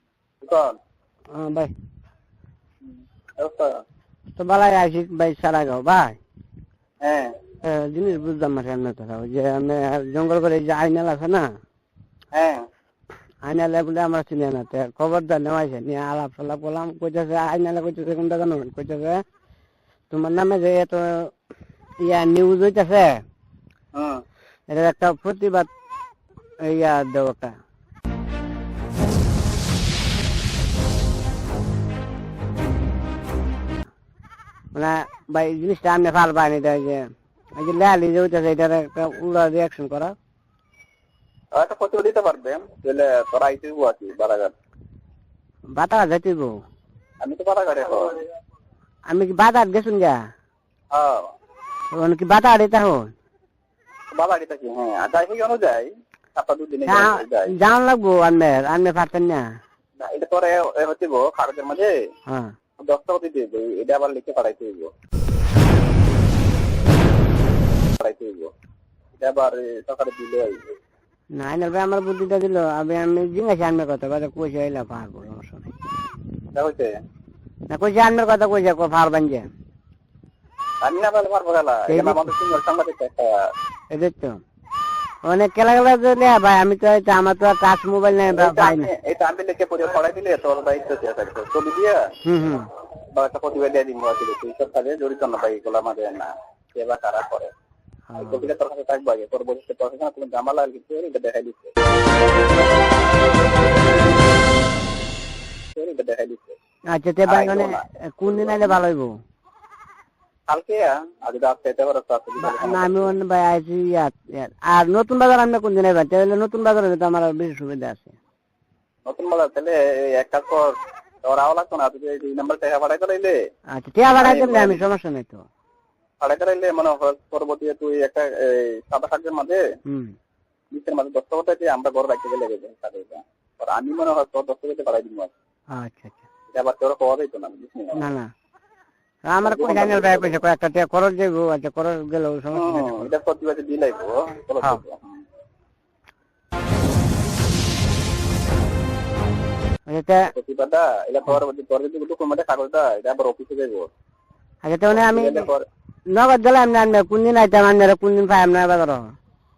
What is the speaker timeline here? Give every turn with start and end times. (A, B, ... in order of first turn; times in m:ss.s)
0:00.4-0:00.8 A
0:01.3-0:01.7 B
0:03.4-0:03.8 A
0:04.4-0:06.2 B
0:07.0-0:07.4 A
0:07.6-0:11.5 B
0:12.4-0:12.6 A
0:13.4-0:19.2 B
0:20.1-0:21.3 B
0:22.0-0:23.2 B
0:24.0-0:24.2 A
0:24.7-0:25.7 B
0:26.6-0:27.6 B
0:34.7-0:37.0 B
0:37.6-0:40.2 B
0:41.6-0:44.5 A
0:45.8-0:46.6 B
0:47.2-0:48.2 A
0:49.1-0:50.2 B
0:50.9-0:51.3 A
0:52.0-0:53.1 B
0:54.1-0:57.6 A
0:56.9-0:59.4 B
1:00.0-1:01.9 A
1:02.8-1:04.9 A
1:08.0-1:08.5 A
1:09.2-1:10.6 A
1:11.4-1:15.7 B
1:16.5-1:16.9 A
1:17.7-1:19.5 B
1:20.8-1:23.3 A
1:21.9-1:22.3 B
1:23.9-1:24.4 B
1:25.3-1:28.9 B
1:28.3-1:32.0 A
1:32.2-1:32.7 B
1:33.1-1:37.5 A
1:38.1-1:38.5 B
1:38.2-1:41.7 A
1:45.8-1:46.6 A
1:46.9-1:49.1 B
1:47.3-1:48.8 A
1:50.5-1:53.1 A
1:52.4-1:58.2 B
1:59.1-2:00.7 A
2:01.3-2:03.4 A
2:03.7-2:05.4 B
2:04.2-2:04.8 A
2:06.2-2:09.6 A
2:09.9-2:10.1 B
2:10.7-2:15.3 A
2:15.7-2:16.3 B
2:16.5-2:18.0 A
2:18.0-2:18.3 B
2:19.3-2:23.1 B
2:19.4-2:20.4 A
2:22.6-2:25.2 A
2:29.9-2:30.3 B
2:30.3-2:33.9 A
2:34.6-2:35.5 B
2:34.9-2:35.6 A
2:36.1-2:39.0 B